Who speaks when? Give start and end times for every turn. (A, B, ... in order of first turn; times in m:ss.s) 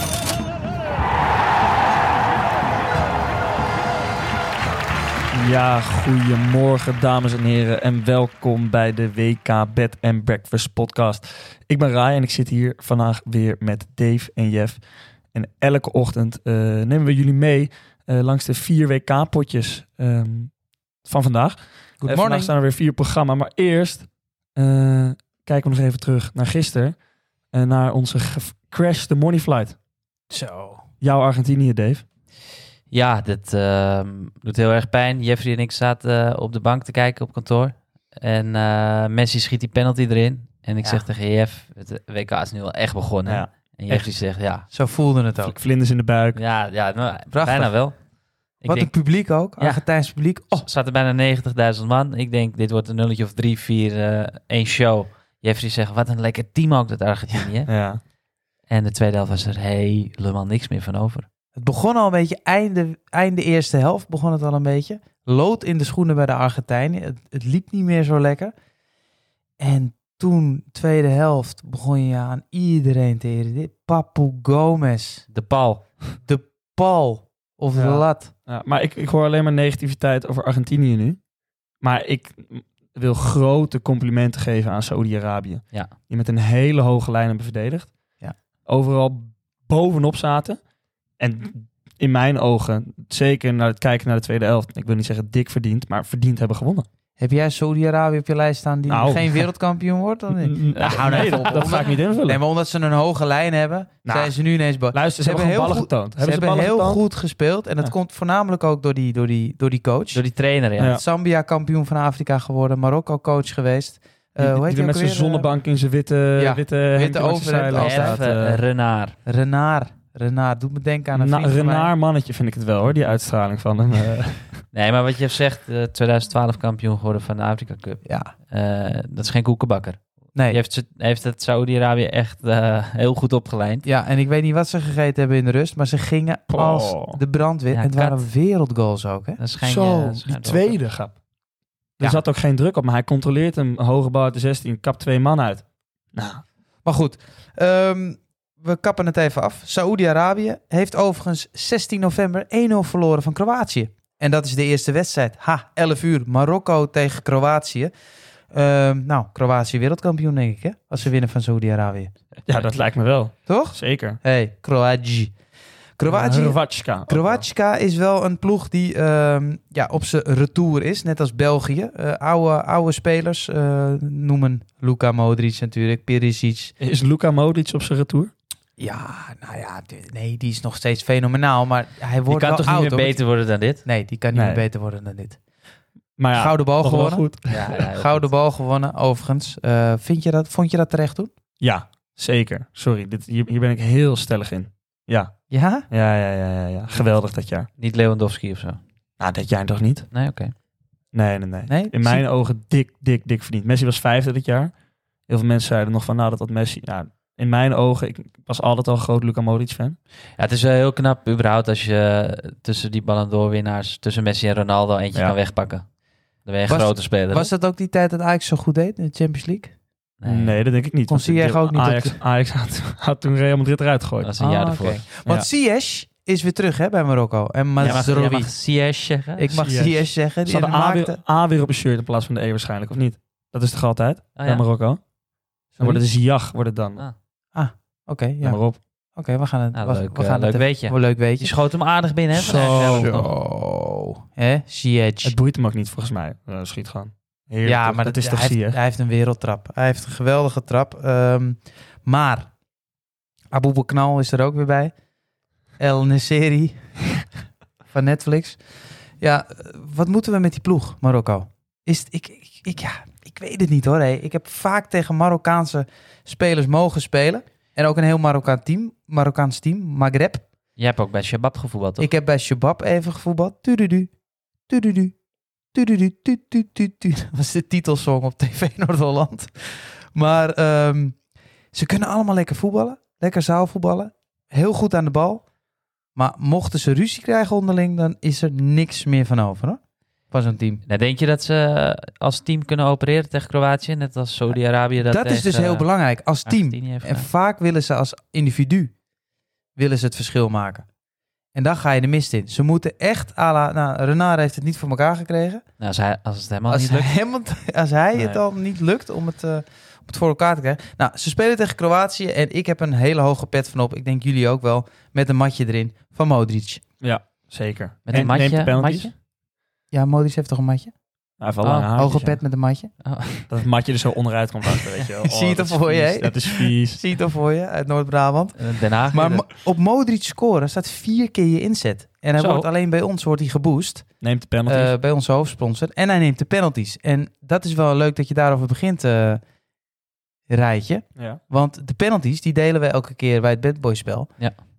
0:05.3-0:14.8 A
0:15.3-0:20.5 A
0:21.0-0:27.0 A
0:22.0-0:22.5 B
0:27.5-0:29.8 A
0:30.3-0:30.8 B
0:31.0-0:32.0 A
0:32.9-0:44.6 C
0:43.9-0:45.6 B
0:45.4-0:46.4 A
0:46.4-0:48.0 C
0:47.3-0:47.9 B
0:48.6-0:57.7 C
0:48.6-0:50.7 B
0:57.7-0:58.0 A
0:58.7-1:01.3 C
1:01.6-1:08.5 B
1:09.6-1:15.2 B
1:15.3-1:15.9 C
1:16.2-1:18.3 B
1:17.8-1:21.2 A
1:21.8-1:28.0 A
1:28.7-1:30.6 A
1:31.2-1:36.9 A
1:37.2-1:50.2 B
1:38.9-1:39.4 A
1:40.3-1:42.4 A
1:40.7-1:41.6 C
1:44.0-1:47.0 A
1:50.1-1:51.0 C
1:50.8-1:51.0 A
1:50.8-1:55.5 B
1:54.4-1:58.6 A
1:56.4-1:58.3 B
1:57.8-1:59.2 C
1:59.3-2:01.9 B
2:01.1-2:04.5 A
2:04.7-2:13.8 C
2:08.0-2:08.3 B
2:13.8-2:19.4 B
2:16.5-2:17.2 A
2:17.7-2:18.3 C
2:19.4-2:20.8 C
2:19.6-2:21.2 A
2:22.0-2:26.4 A
2:26.8-2:37.9 B
2:38.5-2:42.1 B
2:42.5-2:44.2 A
2:43.5-2:45.3 B
2:46.0-2:56.7 B
2:46.1-2:47.4 A
2:56.8-2:58.3 A
2:58.8-3:03.3 B
3:02.3-3:03.8 C
3:03.8-3:05.4 B
3:04.3-3:04.6 A
3:06.2-3:07.8 A
3:06.4-3:11.3 B
3:07.5-3:08.3 C
3:11.6-3:15.4 A
3:15.5-3:15.9 B
3:15.9-3:17.7 A
3:17.8-3:18.8 C
3:19.2-3:20.1 A
3:20.1-3:20.5 C
3:21.1-3:24.7 A
3:21.7-3:22.3 B
3:25.3-3:30.0 A
3:30.4-3:35.8 C
3:36.4-3:37.5 C
3:36.7-3:39.7 B
3:40.2-3:40.6 C
3:40.3-3:44.4 A
3:41.1-3:42.2 B
3:44.2-3:45.0 C
3:44.4-3:48.5 B
3:47.8-3:49.5 C
3:49.4-3:51.2 B
3:49.5-3:55.0 A
3:54.4-3:54.6 C
3:55.7-3:57.0 A
3:55.7-3:56.0 B
3:57.5-4:01.5 B
3:58.4-3:58.8 A
3:59.8-4:03.3 C
4:02.3-4:03.3 A
4:02.5-4:05.4 B
4:05.2-4:08.8 A
4:07.6-4:12.5 B
4:13.5-4:14.9 B
4:15.8-4:17.2 B
4:17.9-4:18.6 B
4:19.2-4:30.4 B
4:30.8-4:32.1 C
4:32.0-4:34.1 B
4:34.7-4:35.2 B
4:35.7-4:41.2 B
4:41.7-4:45.4 B
4:46.2-4:49.8 B
4:50.3-4:50.8 B
4:50.9-4:55.9 C
4:54.5-4:58.9 B
4:56.4-4:57.3 C
4:59.8-5:00.9 B
5:01.5-5:05.6 B
5:05.8-5:07.2 C
5:06.7-5:16.8 B
5:17.0-5:19.1 A
5:18.1-5:19.1 C
5:19.9-5:20.9 B
5:21.4-5:22.4 A
5:21.6-5:21.9 C
5:22.0-5:22.9 B
5:23.0-5:23.5 C
5:23.5-5:27.0 A
5:25.2-5:34.1 B
5:28.6-5:29.5 C
5:32.4-5:32.7 C
5:34.2-5:34.9 A
5:34.7-5:39.4 B
5:40.5-5:44.4 B